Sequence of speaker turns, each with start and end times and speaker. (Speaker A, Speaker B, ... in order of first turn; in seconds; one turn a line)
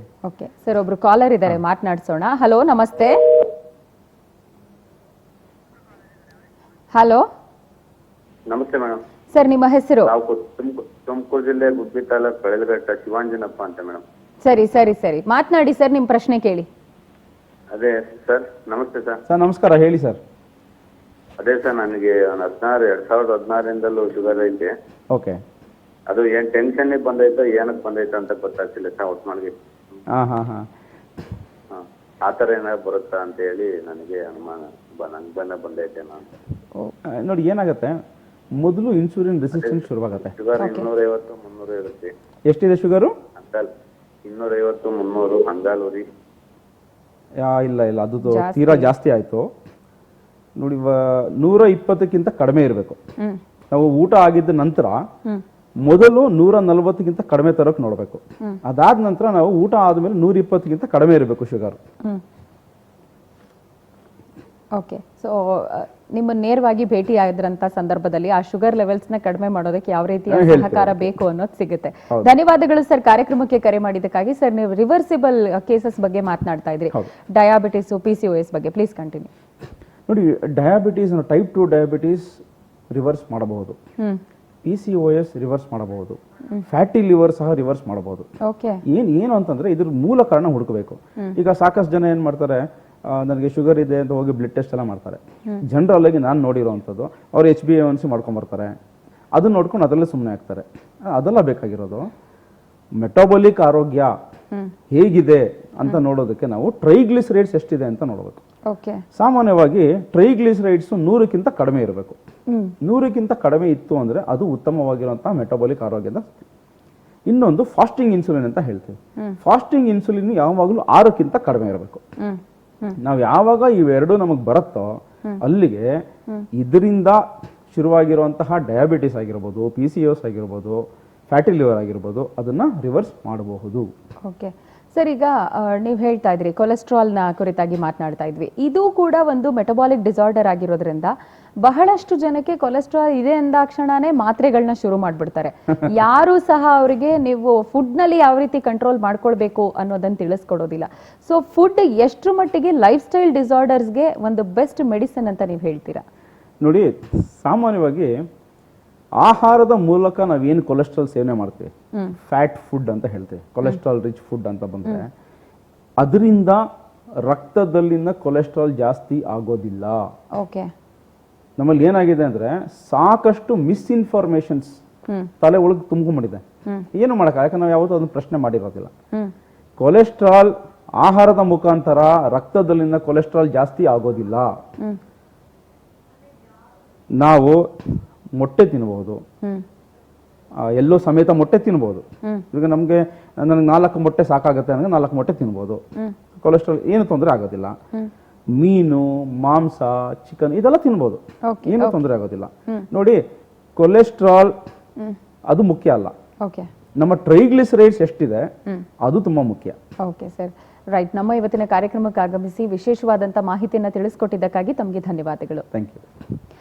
Speaker A: 0.2-3.2
Speaker A: 6.9-7.2
Speaker B: 8.5-9.0
Speaker A: 9.3-10.1
Speaker B: 10.1-14.0
Speaker A: 14.4-16.7
Speaker B: 17.7-19.2
Speaker C: 19.3-20.2
Speaker B: 21.4-24.7
Speaker C: 25.1-25.4
Speaker B: 26.1-30.0
Speaker C: 30.1-30.7
Speaker B: 31.7-36.3
Speaker C: 37.1-38.0
Speaker C: 38.6-40.3
Speaker B: 39.6-42.1
Speaker A: 40.6-40.9
Speaker C: 42.5-43.1
Speaker B: 43.4-43.7
Speaker B: 44.2-46.1
Speaker C: 47.4-49.5
Speaker A: 48.2-48.9
Speaker C: 50.6-53.0
Speaker C: 53.7-55.0
Speaker C: 55.8-61.8
Speaker A: 64.8-79.3
Speaker C: 70.3-71.1
Speaker C: 80.1-83.8
Speaker C: 84.6-88.3
Speaker A: 88.4-88.8
Speaker C: 88.9-98.7
Speaker C: 99.3-102.1
Speaker C: 103.0-104.1
Speaker C: 104.9-108.4
Speaker A: 108.7-109.0
Speaker C: 109.1-112.2
Speaker A: 112.5-112.7
Speaker C: 112.8-116.4
Speaker C: 117.3-122.0
Speaker A: 122.2-123.0
Speaker C: 123.0-126.0
Speaker C: 126.5-127.2
Speaker C: 127.7-133.9
Speaker A: 134.2-156.0
Speaker C: 156.6-158.1
Speaker C: 159.2-161.7
Speaker C: 162.2-165.1
Speaker C: 166.0-166.6
Speaker C: 167.3-170.0
Speaker A: 170.4-170.7
Speaker C: 171.6-174.8
Speaker C: 175.4-176.4
Speaker C: 176.9-178.9
Speaker C: 179.8-184.5
Speaker C: 187.2-187.6
Speaker C: 188.4-189.2
Speaker C: 190.6-195.8
Speaker C: 196.4-197.7
Speaker C: 198.6-203.2
Speaker A: 201.5-202.0
Speaker C: 203.8-204.5
Speaker C: 205.5-206.1
Speaker A: 206.4-206.7
Speaker C: 207.0-208.5
Speaker C: 209.0-209.8
Speaker A: 210.0-215.7
Speaker C: 215.7-216.0